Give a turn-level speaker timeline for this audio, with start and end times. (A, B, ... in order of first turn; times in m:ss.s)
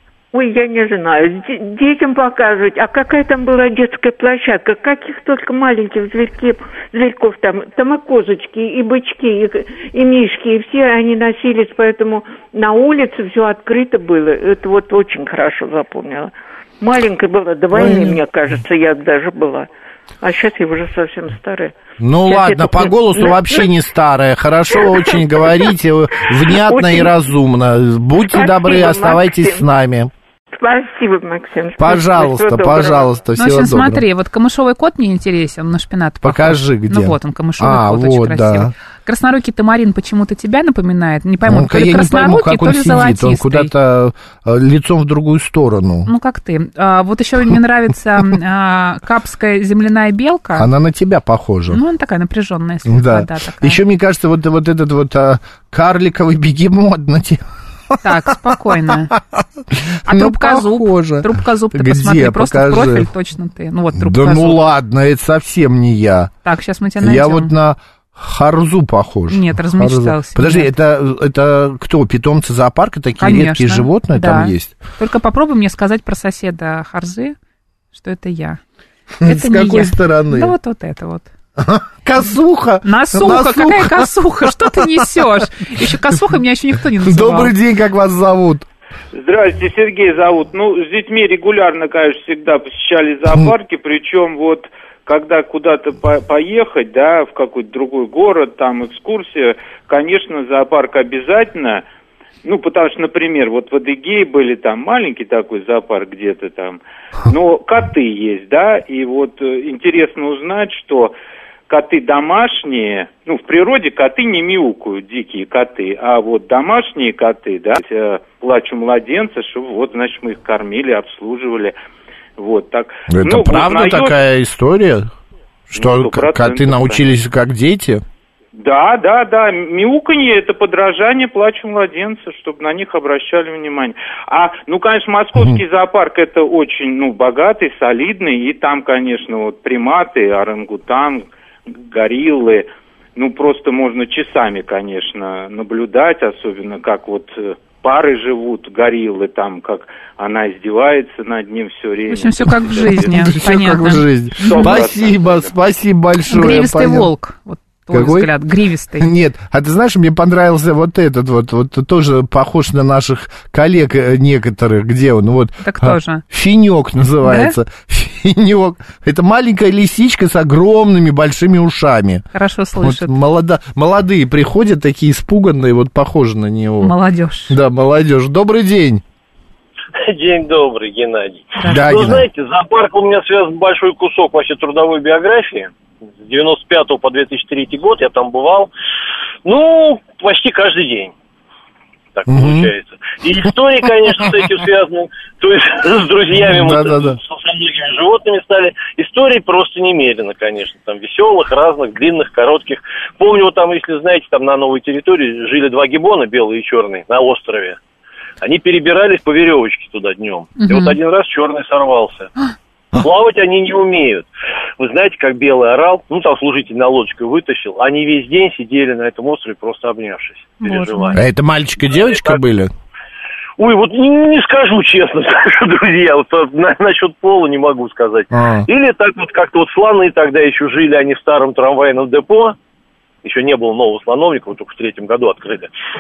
0:00.3-0:19.7 A
0:17.7-0:18.2 B
0:20.2-0:23.7 A
0:22.0-0:30.1 B
0:24.8-0:25.2 A
0:26.5-0:27.1 A
0:28.3-0:29.6 A
0:30.5-0:33.1 A
0:31.8-0:34.0 B
0:33.4-0:43.7 C
0:36.2-0:38.7 B
0:41.5-0:46.1 B
0:46.1-0:50.7 C
0:50.6-0:51.8 B
0:51.7-0:53.8 C
0:52.8-0:57.4 B
0:58.0-0:59.1 C
0:58.3-1:03.1 B
1:00.1-1:04.6 C
1:04.0-1:06.3 B
1:06.4-1:07.5 C
1:07.0-1:14.8 B
1:09.3-1:10.7 C
1:13.2-1:17.4 C
1:17.9-1:18.6 C
1:19.2-1:20.6 B
1:19.2-1:21.3 C
1:21.6-1:25.2 B
1:22.8-1:27.5 C
1:27.0-1:28.6 B
1:29.1-1:41.8 D
1:42.4-1:51.1 D
1:51.7-2:01.8 D
2:02.4-2:04.2 D
2:03.1-2:05.1 B
2:05.7-2:08.0 B
2:05.8-2:07.0 D
2:08.5-2:21.3 D
2:21.9-2:33.3 D
2:32.1-2:34.8 C
2:32.8-2:37.1 B
2:34.4-2:35.5 D
2:36.3-2:39.1 C
2:37.9-2:38.3 B
2:39.0-2:56.9 B
2:45.6-2:46.2 C
2:47.2-2:47.6 C
2:52.3-2:53.1 C
2:56.8-2:57.6 C
2:57.5-2:59.0 B
3:00.0-3:08.7 E
3:01.6-3:02.0 C
3:01.6-3:02.3 B
3:09.4-3:11.1 E
3:12.2-3:27.8 E
3:12.3-3:12.7 B
3:16.3-3:17.2 B
3:28.4-3:32.3 E
3:30.6-3:31.0 C
3:32.9-3:34.3 E
3:34.8-3:41.2 E
3:40.6-3:41.2 C
3:41.1-3:42.7 B
3:43.6-3:52.6 E
3:48.3-3:48.7 B
3:53.2-3:55.7 E